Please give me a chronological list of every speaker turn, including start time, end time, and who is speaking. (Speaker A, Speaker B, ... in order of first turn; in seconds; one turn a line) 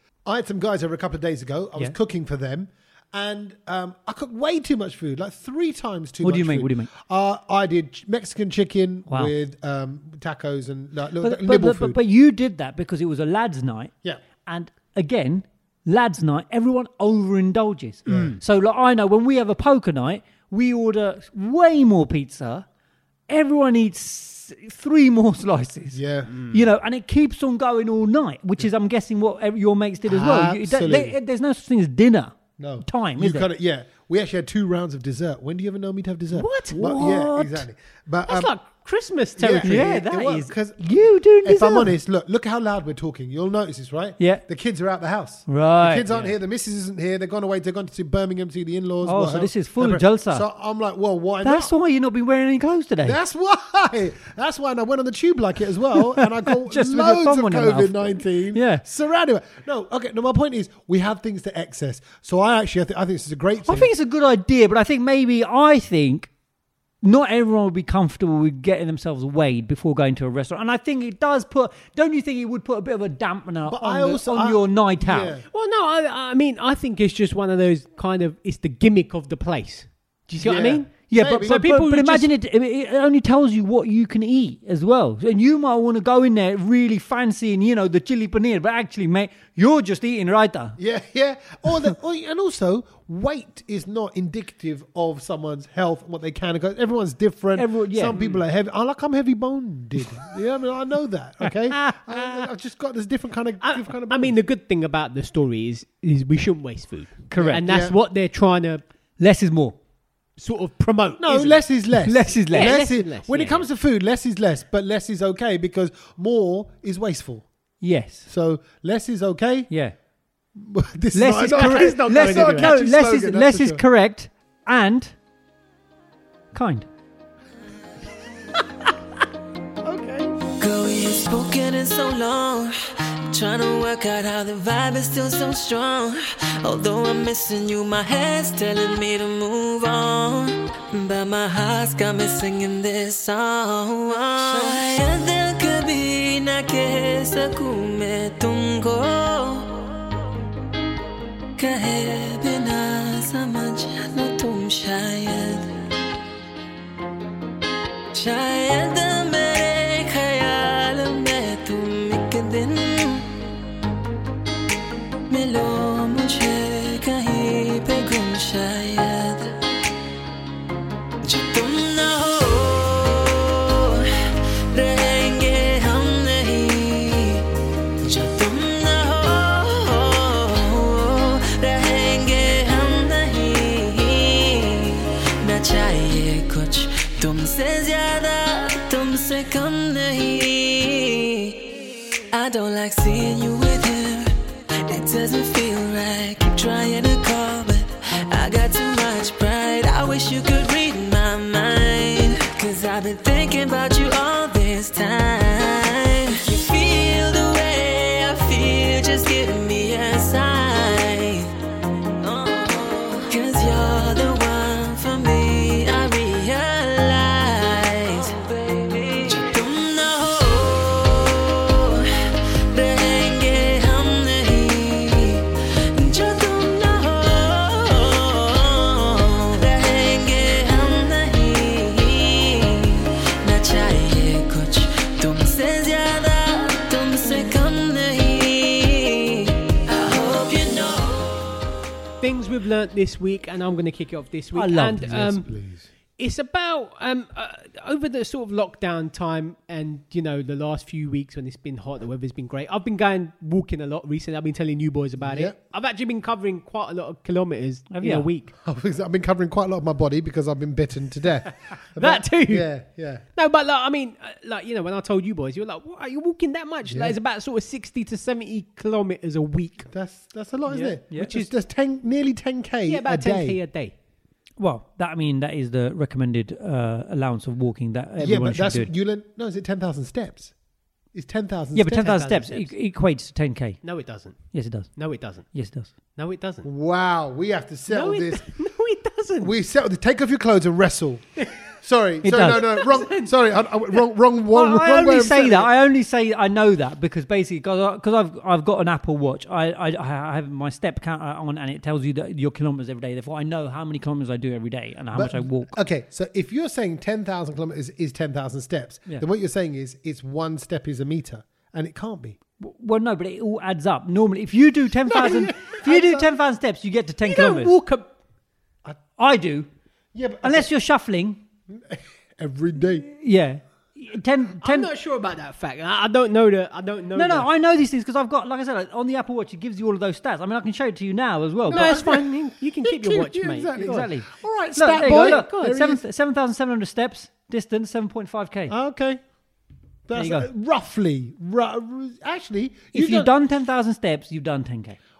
Speaker A: 0.2-12.0
Speaker B: 6.2-6.9
Speaker B: 11.2-13.9
Speaker B: 14.4-22.6
Speaker C: 18.1-18.3
Speaker A: 18.1-18.4
Speaker B: 23.3-33.5
Speaker A: 25.9-26.5
Speaker A: 30.1-31.2
Speaker A: 32.6-38.5
Speaker C: 36.3-36.9
Speaker B: 36.8-37.6
Speaker C: 38.3-40.0
Speaker A: 39.4-51.7
Speaker B: 39.6-41.9
Speaker B: 45.5-46.1
Speaker B: 49.0-50.4
Speaker B: 51.4-53.2
Speaker A: 53.0-63.9
Speaker B: 56.1-58.8
Speaker B: 63.6-66.3
Speaker B: 67.0-75.3
Speaker A: 73.7-75.4
Speaker C: 75.5-82.3
Speaker A: 80.4-81.6
Speaker B: 81.1-90.8
Speaker A: 90.8-104.4
Speaker B: 97.5-98.2
Speaker B: 101.4-102.4
Speaker C: 103.6-108.8
Speaker B: 107.3-107.6
Speaker A: 107.3-107.9
Speaker B: 109.2-109.8
Speaker C: 110.4-113.7
Speaker A: 111.2-117.5
Speaker B: 112.0-112.8
Speaker B: 117.8-118.3
Speaker A: 118.3-119.7
Speaker A: 120.5-123.8
Speaker B: 121.1-125.1
Speaker C: 121.6-122.8
Speaker B: 126.5-126.9
Speaker A: 129.8-130.3
Speaker D: 130.6-132.8
Speaker D: 133.3-149.9
Speaker D: 151.6-155.7
Speaker D: 158.1-163.3
Speaker D: 165.3-169.6
Speaker D: 171.2-174.1
Speaker D: 174.7-177.4
Speaker D: 178.0-211.5
Speaker D: 212.2-222.1
Speaker D: 222.7-241.5
Speaker C: 242.2-245.5
Speaker B: 244.5-245.2
Speaker A: 245.0-245.9
Speaker C: 246.2-258.5
Speaker A: 255.2-255.6
Speaker B: 257.9-258.3
Speaker A: 258.6-263.2
Speaker C: 261.9-262.7
Speaker C: 263.4-269.9
Speaker A: 266.9-267.1
Speaker A: 269.9-273.6
Speaker B: 270.7-271.3
Speaker C: 271.1-271.5
Speaker C: 272.9-273.9
Speaker B: 274.6-278.9
Speaker A: 278.2-280.5
Speaker A: 281.1-282.1
Speaker B: 281.7-283.8
Speaker C: 282.0-282.7
Speaker C: 283.8-285.5
Speaker B: 284.5-284.9
Speaker B: 285.5-285.9
Speaker C: 286.1-286.7
Speaker A: 286.6-288.4
Speaker C: 287.9-289.5
Speaker A: 289.4-295.7
Speaker B: 292.2-292.6
Speaker C: 292.5-293.3
Speaker B: 294.5-305.7
Speaker A: 305.1-312.4
Speaker B: 312.6-317.8
Speaker A: 315.1-316.3
Speaker C: 317.2-318.1
Speaker B: 319.2-319.7
Speaker A: 320.1-320.7
Speaker B: 320.4-321.4
Speaker A: 321.7-323.1
Speaker B: 323.0-324.9
Speaker C: 324.6-327.5
Speaker B: 327.1-332.0
Speaker C: 331.7-334.0
Speaker A: 331.7-336.0
Speaker B: 333.8-338.7
Speaker C: 335.0-335.8
Speaker A: 338.7-339.2
Speaker A: 340.1-343.3
Speaker B: 340.1-340.5
Speaker B: 342.9-345.0